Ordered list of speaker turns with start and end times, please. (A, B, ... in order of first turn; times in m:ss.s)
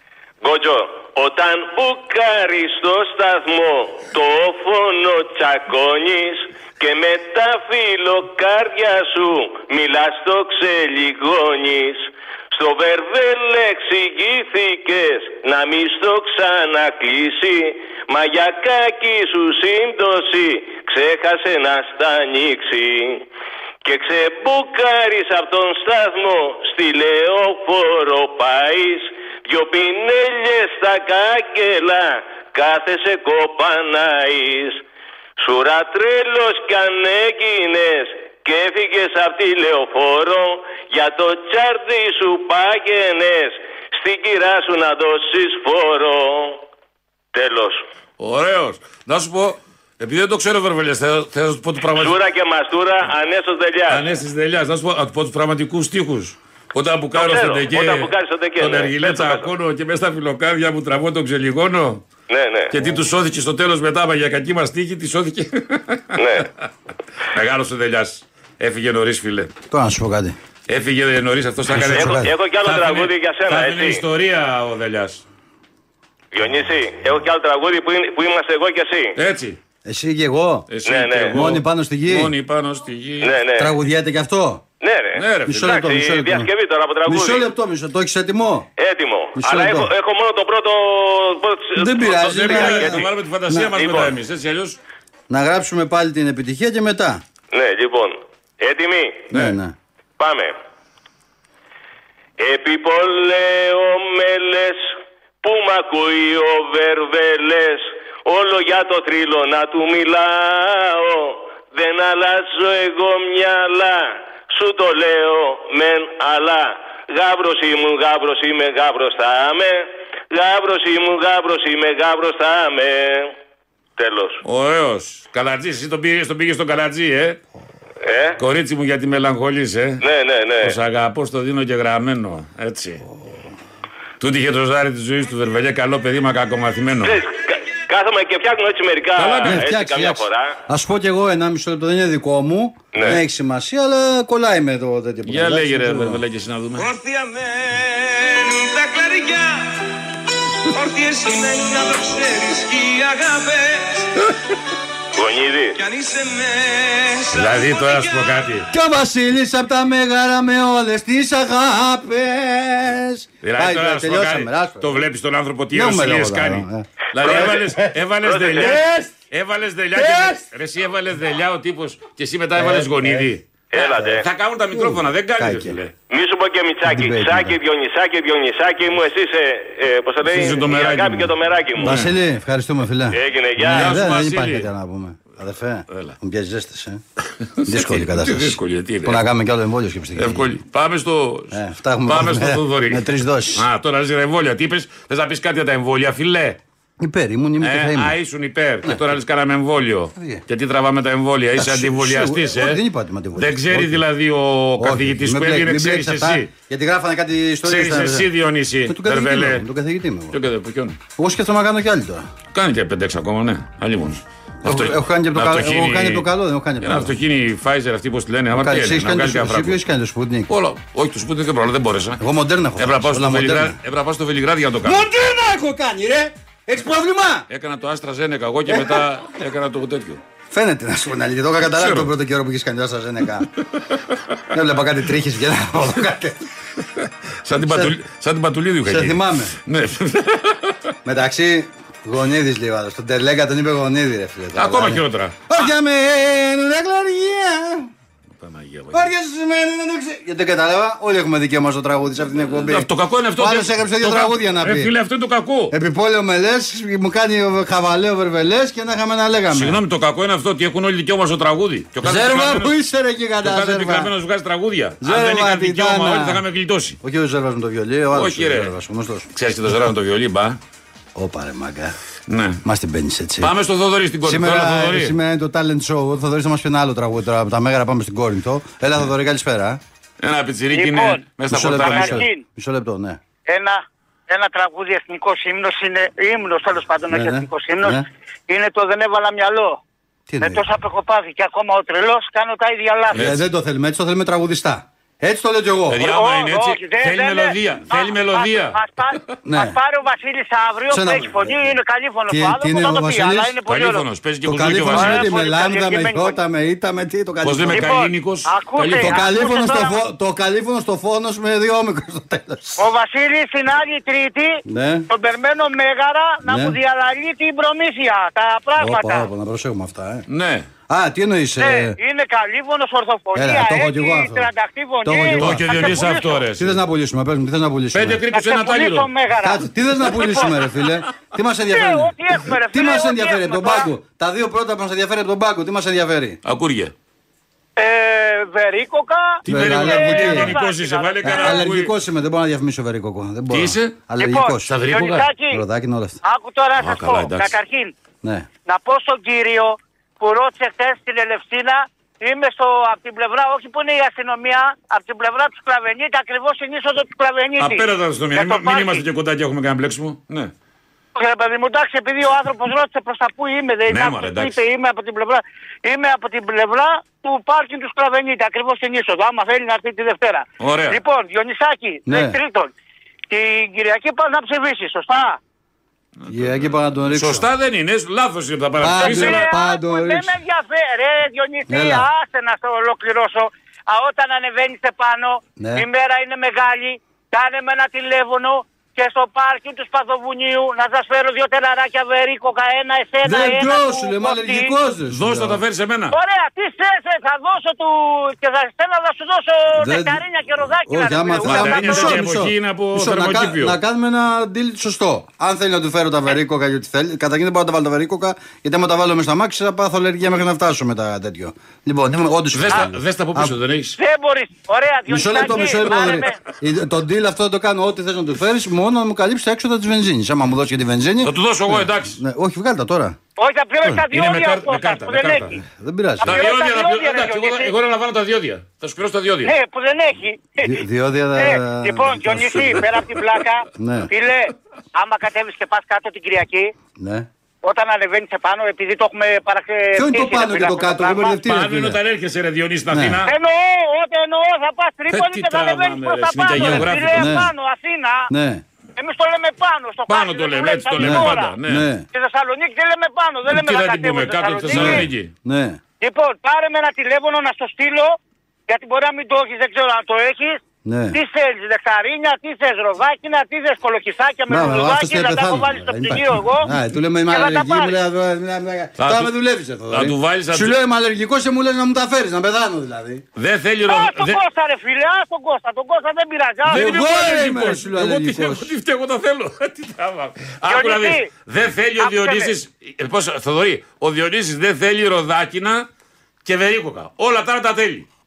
0:00.4-0:23.3 A
0:23.8-0:34.8 A
0:35.4-0:46.6 A
0:47.3-0:47.8 A
0:48.2-0:52.2 B
0:52.0-0:54.1 A
0:53.9-1:02.0 B
0:57.2-0:59.5 A
1:02.3-1:02.8 A
1:02.7-1:06.2 B
1:06.2-1:06.5 A
1:07.3-1:09.5 B
1:09.7-1:10.4 C
1:10.7-1:15.2 B
1:11.7-1:12.3 C
1:11.9-1:14.0 A
1:16.3-1:19.2 A
1:19.2-1:19.6 B
1:19.8-1:20.7 C
1:20.7-1:23.4 B
1:20.9-1:21.5 A
1:21.3-1:22.3 C
1:23.2-1:23.7 A
1:23.6-1:24.6 C
1:24.8-1:27.5 A
1:25.2-1:25.7 B
1:25.5-1:26.5 C
1:27.1-1:28.7 C
1:28.8-1:33.1 A
1:29.4-1:29.9 C
1:31.8-1:33.7 C
1:32.0-1:34.8 B
1:33.8-1:34.1 A
1:35.3-1:37.2 C
1:37.5-1:39.3 A
1:39.3-1:39.8 C
1:40.2-1:40.6 A
1:42.4-2:03.3 A
2:04.0-2:04.4 A
2:04.4-2:07.4 B
2:08.0-2:08.4 A
2:08.4-2:10.0 B
2:10.0-2:10.8 A
2:10.6-2:13.0 B
2:14.2-2:17.2 B
2:17.0-2:20.6 A
2:19.2-2:19.6 B
2:19.4-2:26.2 C
2:22.9-2:23.2 A
2:25.3-2:26.9 B
2:26.8-2:29.8 D
2:30.7-2:34.1 D
2:35.2-2:35.8 A
2:35.8-2:38.5 D
2:37.3-2:38.7 B
2:38.7-2:45.0 C
2:43.4-2:55.9 B
2:45.7-2:47.9 C
2:47.2-2:47.6 A
2:48.2-2:48.8 A
2:48.6-2:49.1 C
2:50.0-2:50.4 C
2:52.6-2:53.3 C
2:53.7-2:54.2 A
2:54.7-2:55.8 C
2:56.1-3:02.1 A
2:56.9-2:57.6 C
3:00.2-3:02.1 B
3:01.8-3:07.0 C
3:03.1-3:04.0 A
3:03.7-3:04.7 B
3:05.9-3:06.2 B
3:07.6-3:09.2 B
3:07.6-3:10.6 C
3:10.2-3:16.6 B
3:11.5-3:13.7 C
3:17.0-3:18.2 C
3:17.6-3:22.8 B
3:20.2-3:20.4 C
3:21.6-3:24.0 C
3:23.4-3:26.5 B
3:24.8-3:28.3 C
3:27.6-3:29.6 B
3:28.9-3:30.4 C
3:30.3-3:31.0 B
3:31.2-3:32.3 C
3:32.5-3:36.3 B
3:34.6-3:37.2 C
3:36.8-3:39.8 B
3:38.5-3:40.5 C
3:40.5-3:42.2 B
3:42.2-3:43.8 C
3:42.8-3:45.0 B
3:44.8-3:47.5 C
3:47.5-3:50.2 B
3:48.7-3:49.1 C
3:50.5-3:53.5 C
3:51.8-3:52.1 B
3:53.9-3:54.2 B
3:54.5-3:56.4 C
3:57.4-4:00.8 B
3:57.6-3:58.0 C
3:58.9-3:59.6 C
4:01.0-4:07.9 C
4:04.6-4:05.5 B
4:08.4-4:09.1 B
4:08.9-4:14.9 C
4:12.6-4:15.7 B
4:15.7-4:19.8 C
4:19.5-4:22.7 B
4:22.0-4:24.1 C
4:23.4-4:27.0 B
4:25.0-4:26.4 C
4:27.0-4:29.3 C
4:28.1-4:28.7 B
4:29.3-4:30.6 B
4:31.2-4:32.0 C
4:32.3-4:32.6 B
4:32.6-4:33.5 C
4:33.4-4:35.2 B
4:34.2-4:39.8 C
4:40.2-4:42.2 B
4:40.7-4:42.4 E
4:41.5-4:43.2 C
4:43.5-4:49.8 E
4:47.1-4:48.1 C
4:50.3-4:50.7 C
4:50.4-4:53.2 E
4:53.1-4:53.4 B
4:53.1-4:56.1 C
4:55.9-4:59.4 B
4:56.0-5:04.1 E
4:59.4-4:59.8 C
5:00.9-5:01.8 C
5:02.3-5:03.6 C
5:03.7-5:05.4 B
5:04.4-5:08.0 C
5:04.8-5:06.4 E
5:07.4-5:09.3 B
5:07.7-5:10.0 E
5:09.0-5:12.8 C
5:12.8-5:19.3 E
5:14.7-5:15.1 C
5:16.4-5:16.8 C
5:18.8-5:20.3 C
5:20.3-5:20.7 B
5:20.9-5:22.0 C
5:21.6-5:26.5 E
5:23.4-5:24.5 C
5:25.0-5:28.3 C
5:25.3-5:26.8 B
5:27.9-5:29.1 B
5:28.3-5:30.7 E
5:29.4-5:36.4 C
5:31.7-5:33.9 E
5:36.4-5:36.9 B
5:37.8-5:41.7 E
5:39.4-5:41.9 B
5:39.5-5:40.6 C
5:41.2-5:44.8 C
5:43.5-5:44.1 B
5:44.2-5:45.6 E
5:44.6-5:45.3 B
5:45.5-5:46.2 C
5:46.2-5:47.9 E
5:46.8-5:47.6 B
5:48.2-5:48.5 C
5:48.7-5:59.0 E
5:57.6-6:00.5 B
6:01.2-6:12.7 E
6:03.9-6:04.6 B
6:10.6-6:11.0 B
6:12.1-6:12.4 C
6:13.3-6:15.4 E
6:16.2-6:19.5 B
6:16.3-6:17.5 C
6:18.8-6:20.4 C
6:19.0-6:34.7 E
6:21.7-6:22.1 C
6:25.6-6:25.9 C
6:33.2-6:35.6 C
6:35.1-6:36.2 B
6:36.1-6:42.3 E
6:39.8-6:40.2 C
6:40.9-6:53.6 C
6:41.4-6:43.8 B
6:52.5-6:54.0 B
6:54.0-6:56.4 E
6:55.1-7:03.2 C
7:01.2-7:02.2 B
7:03.4-7:05.6 E
7:04.0-7:05.6 B
7:05.6-7:06.5 C
7:06.2-7:07.7 E
7:06.2-7:09.6 B
7:09.4-7:10.8 E
7:10.6-7:12.9 C
7:11.4-7:16.7 E
7:13.8-7:14.1 C
7:17.0-7:17.3 C
7:17.6-7:21.4 E
7:20.0-7:22.0 C
7:21.4-7:23.3 B
7:22.9-7:23.3 C
7:23.3-7:28.3 E
7:25.1-7:27.4 B
7:26.5-7:27.5 C
7:28.3-7:28.6 C
7:29.0-7:31.6 E
7:30.1-7:31.9 B
7:31.0-7:32.1 C
7:32.1-7:35.1 E
7:33.5-7:35.3 B
7:34.7-7:35.8 C
7:36.0-7:38.2 E
7:38.7-7:40.6 E
7:40.8-7:41.2 C
7:41.1-7:46.7 E
7:44.5-7:53.2 C
7:47.3-7:48.0 E
7:49.0-7:49.3 B
7:49.9-7:50.8 B
7:53.4-7:54.4 B
7:53.9-7:56.9 E
7:56.7-8:05.9 B
7:56.7-7:58.7 C
8:00.7-8:01.3 E
8:02.0-8:02.5 E
8:06.4-8:08.1 B